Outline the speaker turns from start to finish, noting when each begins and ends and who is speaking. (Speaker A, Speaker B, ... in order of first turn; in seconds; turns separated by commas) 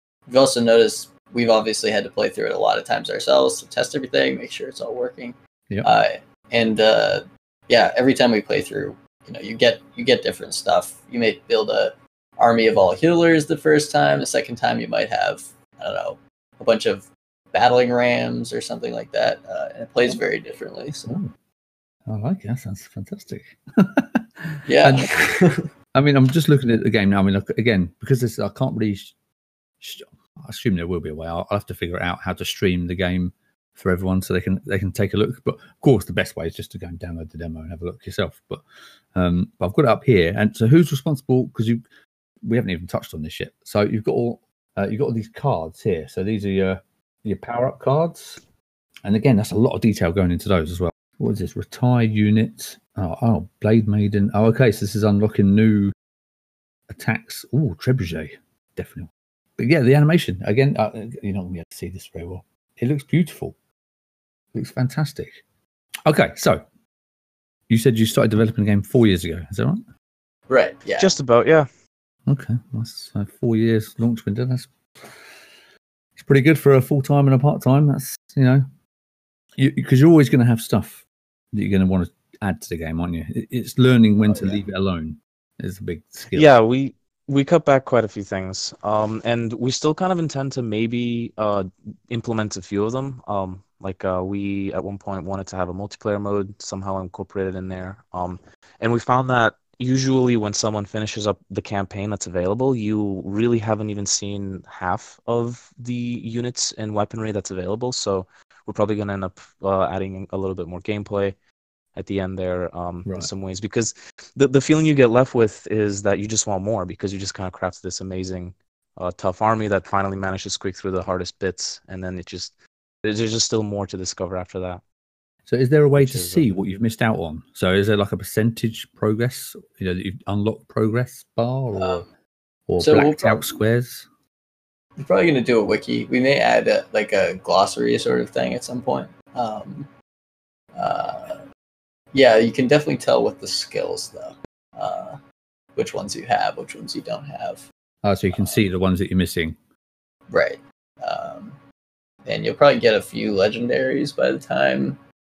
Speaker A: 0.3-21.2, Speaker B: 21.1-21.3, Speaker B: 22.1-25.1, Speaker A: 24.7-25.6, Speaker B: 25.9-29.1, Speaker B: 29.8-41.8, Speaker B: 42.4-48.4, Speaker B: 49.0-55.9, Speaker B: 56.9-63.6, Speaker B: 64.5-65.4, Speaker B: 66.1-66.6, Speaker B: 67.7-69.8, Speaker A: 70.5-71.1, Speaker C: 71.0-71.7, Speaker B: 72.3-75.2, Speaker B: 76.2-78.7, Speaker B: 79.6-86.5, Speaker A: 84.3-84.6, Speaker C: 86.3-111.4, Speaker C: 112.0-124.8, Speaker B: 113.1-113.3, Speaker B: 125.5-132.1, Speaker C: 126.0-126.5, Speaker A: 131.7-132.1, Speaker B: 132.7-134.1, Speaker A: 132.8-133.5, Speaker A: 135.0-139.9, Speaker A: 140.8-141.4, Speaker A: 142.1-145.2, Speaker A: 145.8-147.7, Speaker B: 148.0-149.6, Speaker A: 148.3-148.6, Speaker A: 150.3-151.6, Speaker A: 152.2-155.0